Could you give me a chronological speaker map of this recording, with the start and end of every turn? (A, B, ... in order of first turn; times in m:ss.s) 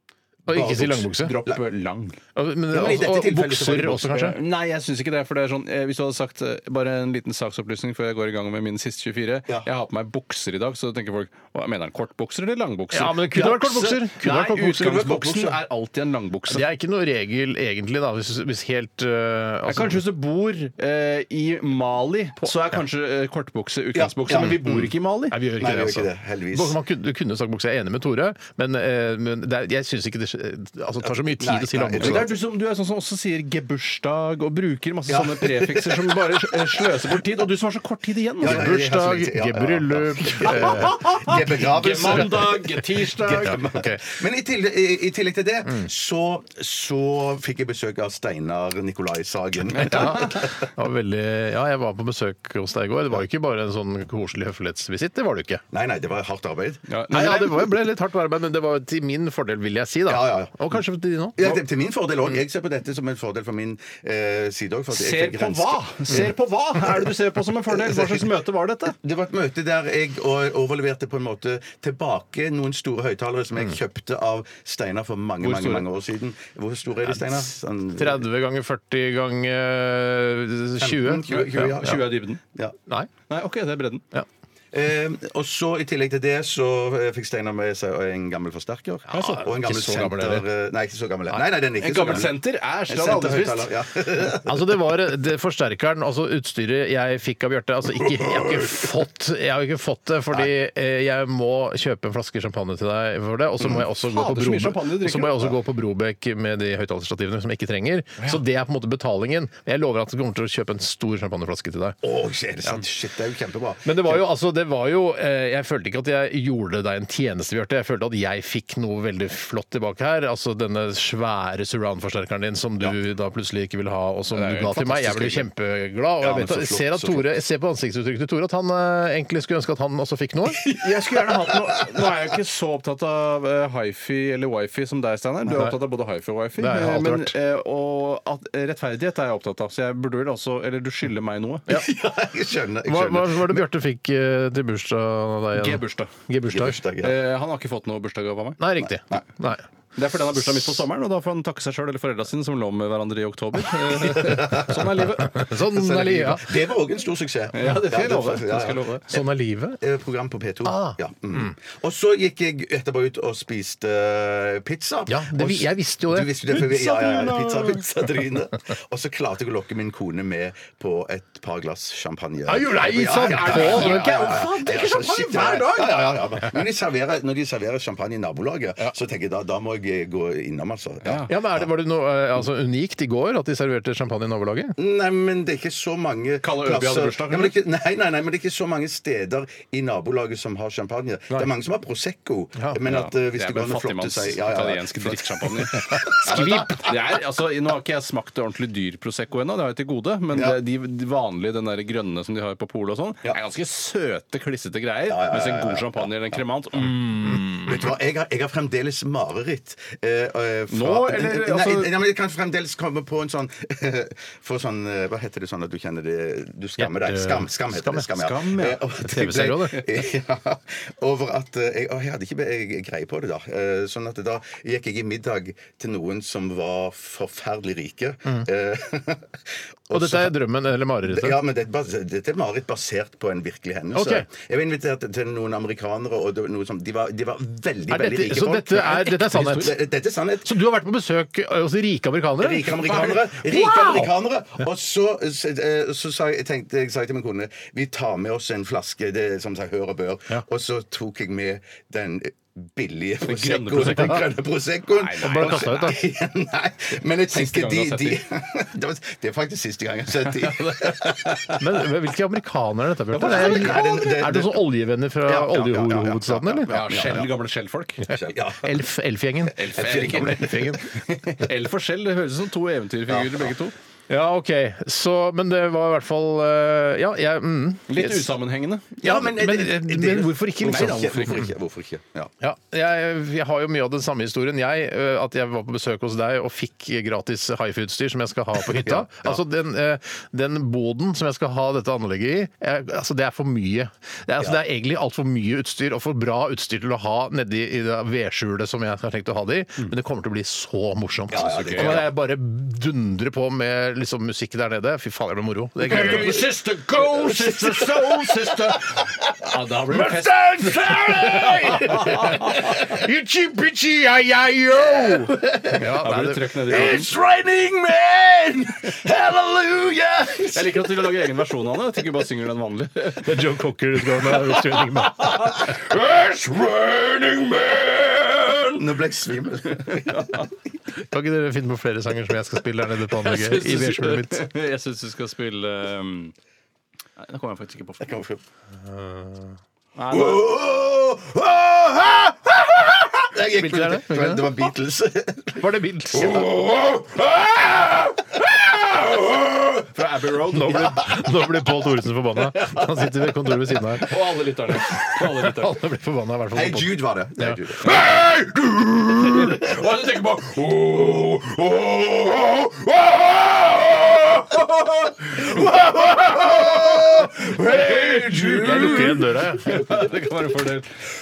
0:00.5-0:01.3 A
0:00.5-0:01.6 B
0:01.1-0:02.2 C
0:02.4-0:04.4 A
0:02.7-0:04.1 B
0:04.1-0:16.6 C
0:12.9-0:15.0 A
0:14.6-0:15.6 B
0:16.5-0:20.0 A
0:19.6-0:25.4 C
0:23.9-0:24.9 B
0:25.3-0:32.4 A
0:25.6-0:26.8 B
0:31.2-0:32.4 B
0:32.0-0:38.7 C
0:35.1-0:36.1 B
0:38.4-0:50.7 B
0:38.4-0:42.4 A
0:41.0-0:43.6 C
0:43.4-0:44.0 A
0:49.7-0:50.3 C
0:49.8-0:55.6 A
0:55.7-0:57.5 B
0:56.9-0:57.6 C
0:57.1-1:01.6 A
1:00.1-1:00.7 B
1:01.4-1:06.3 B
1:04.9-1:09.0 C
1:07.8-1:08.3 B
1:09.0-1:18.2 B
1:15.4-1:15.8 C
1:18.0-1:22.0 A
1:20.8-1:22.8 B
1:21.3-1:22.4 C
1:23.3-1:24.0 C
1:24.7-1:34.7 B
1:29.1-1:30.4 A
1:29.1-1:29.5 C
1:31.8-1:33.7 C
1:34.4-1:52.0 A
1:44.0-1:45.6 C
1:52.0-1:54.2 B
1:53.8-2:10.6 A
2:04.3-2:05.4 C
2:06.2-2:07.3 B
2:10.7-2:21.7 C
2:15.5-2:15.7 A
2:16.6-2:17.3 A
2:21.7-2:23.6 B
2:22.8-2:26.8 A
2:25.5-2:26.1 C
2:26.5-2:27.2 B
2:27.0-2:28.6 C
2:28.6-2:29.6 A
2:30.0-2:36.3 C
2:34.2-2:34.7 B
2:35.2-2:36.5 A
2:35.8-2:39.2 B
2:37.5-2:39.1 C
2:39.1-2:39.8 A
2:39.8-3:01.4 B
2:40.6-2:41.5 A
2:45.1-2:46.3 A
2:46.5-2:47.8 C
2:52.5-2:54.2 A
2:53.1-2:56.0 C
3:01.0-3:01.3 C
3:01.3-3:04.8 A
3:04.8-3:16.6 B
3:06.4-3:07.5 C
3:12.8-3:27.7 C
3:16.1-3:16.9 A
3:20.3-3:20.6 B
3:25.1-3:26.1 B
3:27.6-3:50.3 B
3:30.7-3:31.9 C
3:36.8-3:38.1 A
3:38.1-3:38.8 C
3:39.0-3:39.8 A
3:49.9-3:51.4 A
3:51.1-4:00.6 B
3:53.9-3:54.2 A
3:57.9-3:59.8 A
3:59.2-3:59.7 C
4:00.4-4:04.1 A
4:02.4-4:21.6 B
4:13.2-4:14.2 C
4:13.8-4:14.2 A
4:15.0-4:16.0 C
4:15.2-4:16.0 A
4:17.3-4:18.2 C
4:20.3-4:21.6 C
4:21.6-4:26.8 A
4:23.1-4:23.8 C
4:23.2-4:24.6 B
4:25.2-4:27.3 B
4:26.7-4:28.1 C
4:28.1-4:28.8 B
4:28.1-4:30.9 A
4:29.5-4:33.7 C
4:29.7-4:30.8 B
4:33.1-4:33.5 B
4:34.1-4:38.3 A
4:37.9-4:39.0 C
4:39.0-4:42.3 B
4:39.0-4:41.5 A
4:40.6-4:41.4 C
4:42.4-5:06.4 A
4:48.7-4:49.4 B
5:01.3-5:02.1 B
5:01.4-5:02.0 C
5:05.8-5:12.7 C
5:05.9-5:12.7 B
5:10.6-5:16.7 A
5:14.9-5:15.9 B
5:15.9-5:17.1 C
5:16.6-5:21.2 B
5:20.4-5:23.4 C
5:23.2-5:25.7 A
5:25.7-5:30.4 B
5:29.9-5:30.5 C
5:31.0-5:34.5 A
5:33.1-5:36.3 C
5:37.2-5:38.0 C
5:38.0-5:38.4 B
5:38.8-5:39.6 A
5:40.0-5:40.5 C
5:40.1-5:45.6 B
5:43.5-5:44.6 A
5:45.5-5:46.6 A
5:46.1-5:49.7 B
5:49.9-5:51.1 C
5:50.5-5:54.2 A
5:54.0-5:55.8 C
5:55.2-5:59.4 A
5:56.5-5:58.2 B
5:59.2-6:00.8 C
5:59.4-5:59.9 B
6:00.7-6:09.2 B
6:07.6-6:11.0 C
6:08.4-6:09.8 A